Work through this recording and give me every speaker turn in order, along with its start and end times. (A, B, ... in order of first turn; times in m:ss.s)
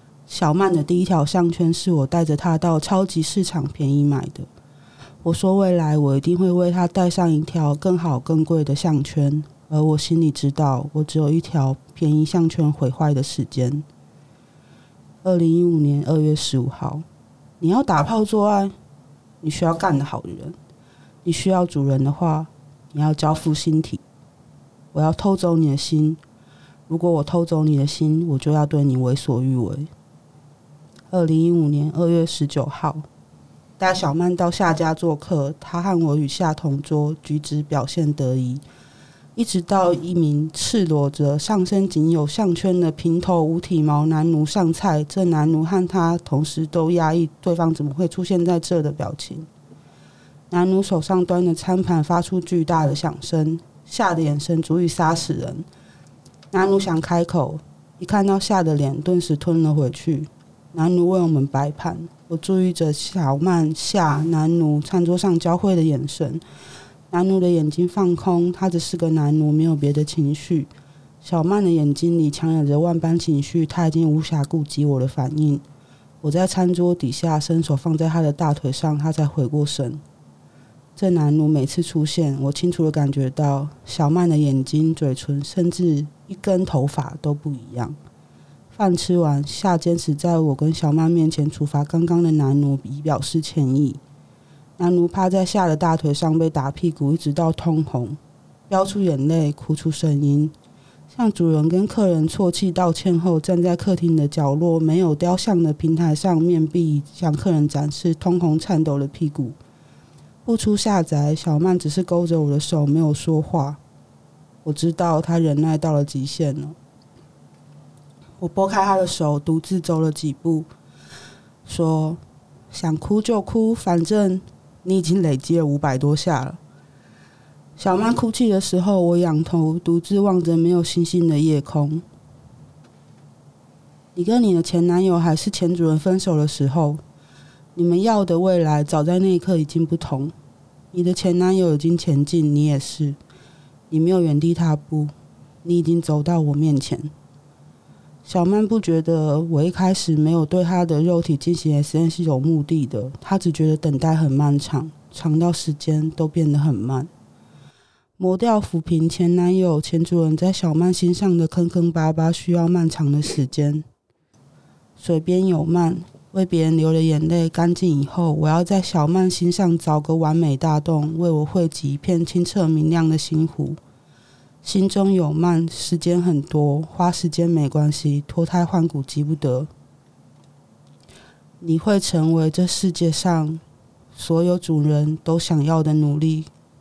0:00.3-0:04.5 A
0:05.2-0:13.9 A
0:15.2-0:17.0 A
0:17.6-0:18.7 A
0:19.4-0:20.6 A
0:21.2-0:24.0 A
0:24.9-0:26.2 A
0:26.9-0:29.9 A
0:31.1-0:33.1 A
0:33.8-0:38.6 A
0:39.4-0:49.5 A
0:50.5-0:55.6 A
0:56.5-1:06.4 A
1:07.1-1:10.7 A
1:11.2-1:15.6 A
1:16.2-1:20.0 A
1:21.0-1:28.0 A
1:28.8-1:34.0 A
1:34.8-1:40.5 A
1:41.1-1:49.6 A
1:50.4-1:53.8 A
1:54.6-1:56.8 A
1:58.4-2:00.7 A
2:01.7-2:06.6 A
2:07.8-2:12.0 A
2:14.2-2:17.0 A
2:17.8-2:20.3 A
2:20.9-2:23.2 A
2:23.9-2:25.1 A
2:25.6-2:27.1 A
2:28.3-2:37.1 A
2:38.2-2:43.9 A
2:45.0-2:53.8 A
2:54.6-2:59.7 A
3:01.6-3:03.6 A
3:04.2-3:06.5 A